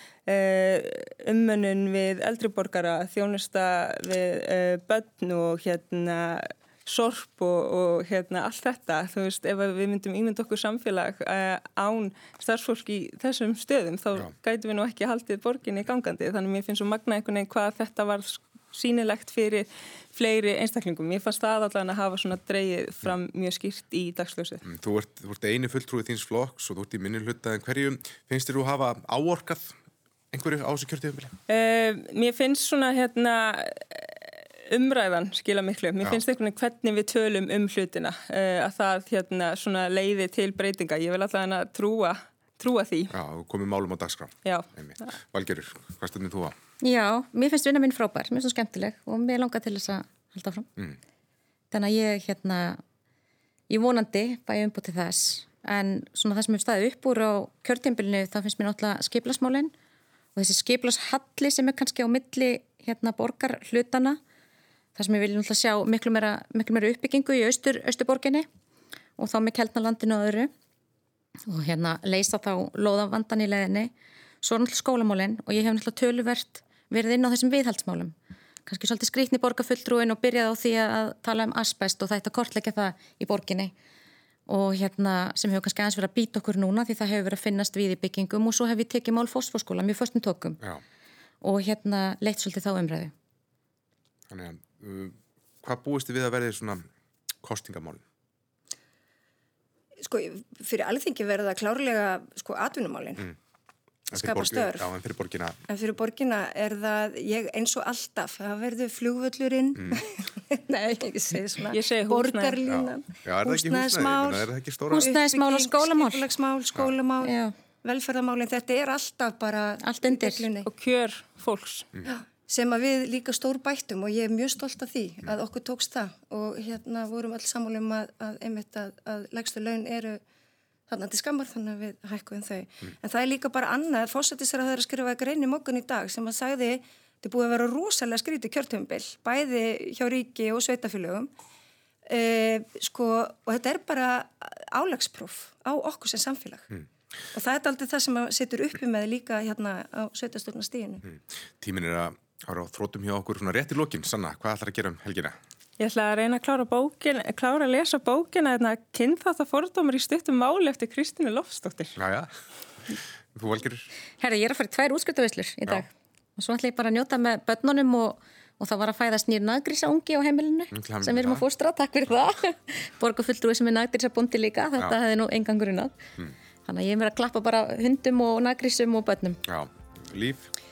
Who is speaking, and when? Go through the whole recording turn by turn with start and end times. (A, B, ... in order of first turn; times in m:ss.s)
0:00.3-0:24.6 A
0:24.6-0:29.7 B
0:30.3-0:31.4 B
0:31.5-0:43.1 A
0:43.1-0:46.5 B
0:44.4-0:45.1 A
0:46.8-0:50.7 C
0:51.7-0:52.8 C
0:53.7-0:59.7 C
1:00.4-1:04.2 C
1:05.0-1:08.5 C
1:09.2-1:10.5 C
1:11.5-1:18.1 C
1:18.6-1:23.7 C
1:24.5-1:30.6 C
1:31.4-1:33.1 C
1:34.3-1:36.8 B
1:37.4-1:38.0 B
1:40.0-1:43.3 D
1:44.1-1:45.6 B
1:44.1-1:44.9 D
1:45.7-2:00.7 D
1:49.8-1:50.0 B
1:51.7-1:52.6 A
1:52.6-1:55.1 B
1:54.9-1:56.2 C
1:57.2-1:57.5 C
1:59.8-2:00.5 C
2:00.6-2:01.9 A
2:02.0-2:10.2 D
2:10.9-2:21.3 D
2:22.1-2:26.7 D
2:27.3-2:31.0 D
2:31.0-2:35.3 B
2:35.8-2:42.0 A
2:42.0-2:42.3 B
2:43.3-2:43.9 B
2:44.2-2:55.9 C
2:50.7-2:51.4 B
2:56.6-2:59.4 C
2:59.4-3:00.5 B